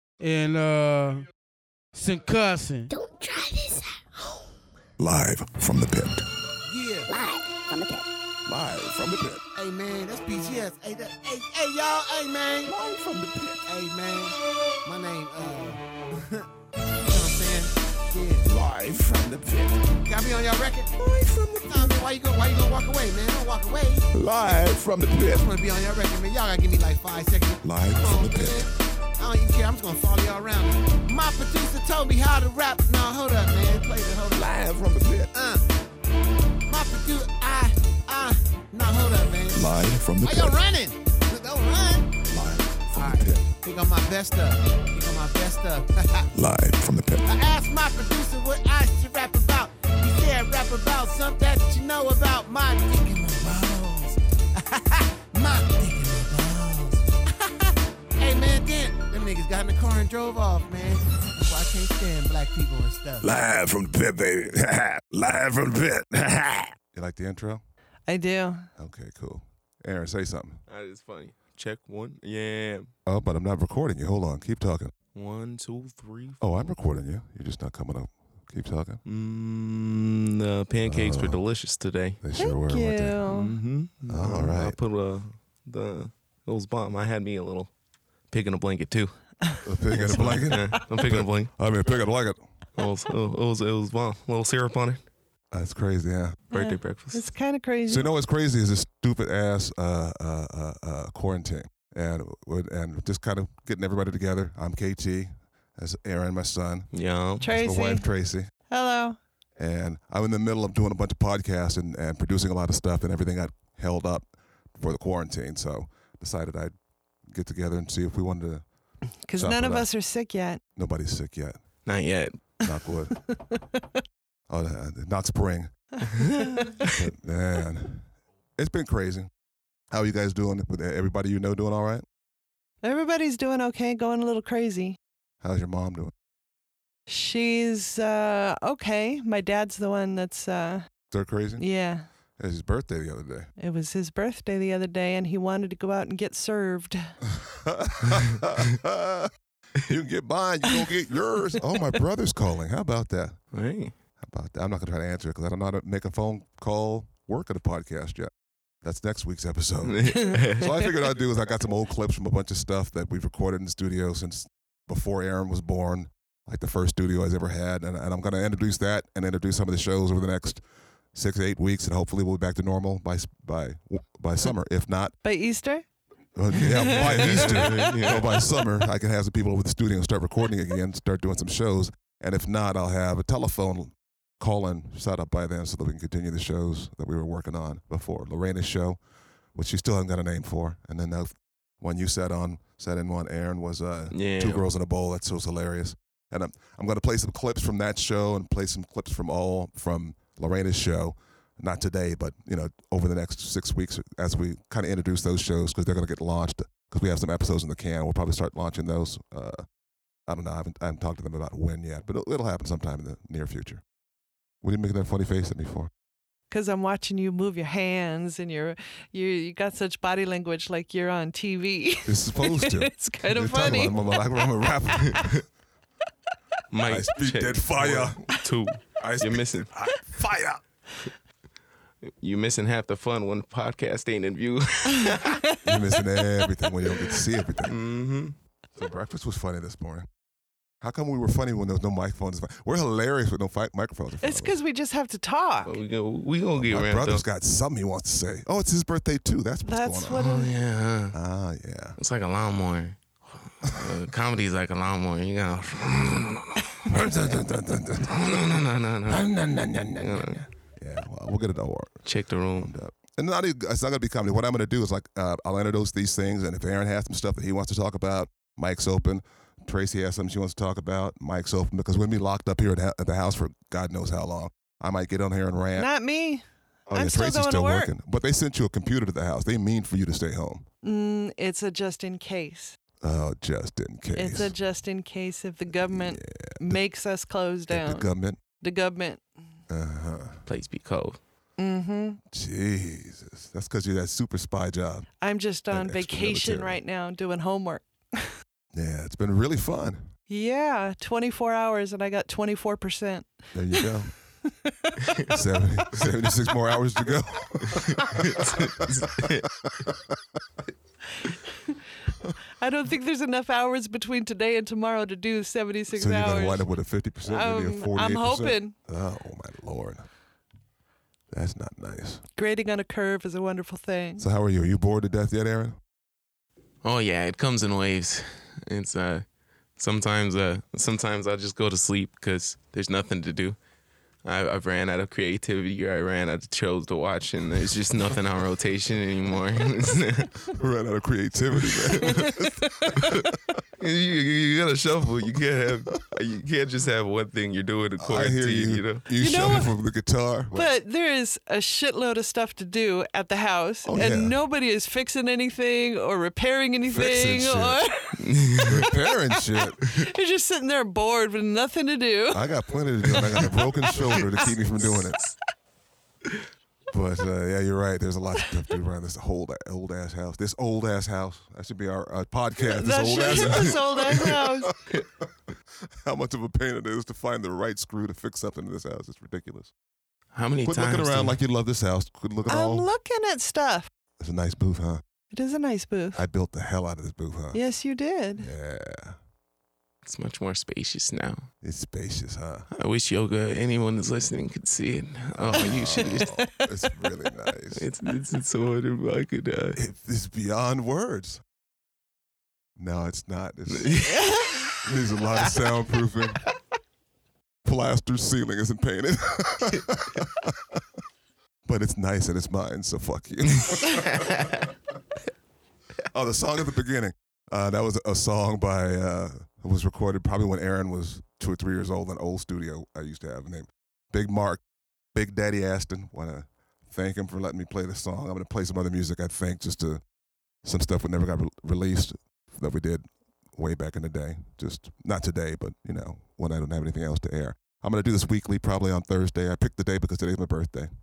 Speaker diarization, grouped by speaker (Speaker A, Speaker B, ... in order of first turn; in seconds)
Speaker A: 0.2-1.3, 1.9-2.9
Speaker B: 2.9-4.5, 7.1-8.1
Speaker C: 5.0-6.3, 8.5-9.4, 12.7-13.7, 18.4-19.8, 21.0-22.0, 24.1-25.5, 27.6-28.6, 34.3-35.3, 39.5-40.6, 42.3-43.5, 46.3-47.3, 63.2-66.7
Speaker D: 6.7-7.1, 9.6-12.7, 13.7-16.5, 17.0-18.5, 20.1-21.0, 21.7-24.1, 25.3-34.5, 35.3-35.6, 36.7-42.1, 43.0-46.3, 47.3-63.3
Speaker E: 27.6-28.4, 66.8-67.6, 68.8-70.6, 73.1-74.9, 76.4-79.0, 80.8-81.4, 82.2-83.2, 84.1-84.8, 89.7-92.4, 95.5-96.4, 97.9-106.9, 107.4-108.5, 109.6-116.7, 117.3-118.7, 119.3-119.9, 120.8-121.6, 122.6-123.2, 124.5-125.7, 126.8-129.3, 129.9-132.1, 135.4-136.1, 141.1-141.7, 142.4-143.5, 147.3-149.3, 149.9-153.4, 154.2-158.3, 158.8-170.6, 171.1-175.2, 176.3-189.0, 189.6-209.6, 210.3-213.8, 214.6-215.9, 222.1-225.4, 226.8-228.2, 229.0-230.6, 235.6-237.8, 238.8-240.1, 240.8-244.6, 246.6-250.3, 251.1-252.0, 256.8-262.0, 262.6-275.9, 276.9-280.7, 283.0-284.5, 285.7-286.8, 287.7-288.4, 289.7-290.4, 292.3-295.1, 295.7-296.8, 298.7-300.1, 303.5-304.1, 305.3-309.9, 315.9-320.1, 321.3-322.2, 324.2-325.8, 340.5-343.2, 348.0-350.7, 353.9-354.4, 356.8-357.8, 358.6-359.8, 362.3-365.2, 366.9-374.9, 376.0-379.7, 380.6-382.9, 384.2-385.0, 386.1-387.6, 388.4-389.2, 391.6-392.7, 395.3-397.9, 399.8-401.4, 402.8-404.1, 404.8-406.4, 407.6-410.8, 411.7-414.6, 416.1-424.6, 425.1-430.0, 430.6-433.0, 433.6-440.9
Speaker F: 68.1-68.7, 82.4-83.5, 90.2-90.5, 96.5-98.1, 107.4-108.1, 108.7-109.2, 119.3-120.6, 123.3-124.0, 126.2-126.8, 132.8-135.0, 137.1-140.9, 141.6-142.1, 143.6-147.1, 175.2-175.8, 176.6-177.7, 216.5-224.0, 235.0-235.6, 244.2-245.8, 249.7-250.5, 275.8-277.9, 280.8-282.8, 284.1-288.1, 288.6-289.2, 291.6-292.2, 295.2-298.3, 300.3-303.9, 304.5-305.4, 312.6-316.7, 317.2-318.7, 322.4-324.2, 342.1-343.3, 349.2-349.7, 350.5-358.3, 359.1-362.5, 363.1-364.5, 372.7-374.7, 382.5-383.9, 385.3-386.2, 387.5-388.5, 395.9-396.5, 404.1-404.7
Speaker G: 70.7-72.9, 75.2-76.4, 79.0-82.2, 83.3-87.7, 88.3-89.2, 89.9-91.5, 92.8-95.0, 96.5-97.3, 106.9-107.5, 121.9-122.3, 153.5-153.9, 159.8-160.7, 176.8-178.3, 194.1-194.7, 225.0-225.4, 226.7-229.7, 232.1-235.4, 237.7-238.3, 245.7-247.2, 250.2-251.2, 252.0-256.9, 258.1-259.3, 260.0-260.4, 262.1-262.7, 290.5-291.2, 307.8-309.5, 326.8-329.2, 329.8-333.6, 334.2-340.4, 341.8-342.3, 343.8-349.0, 358.2-358.8, 373.3-373.7, 380.3-381.4, 390.0-391.5, 392.7-396.3, 397.8-399.8, 403.7-404.2, 414.1-414.4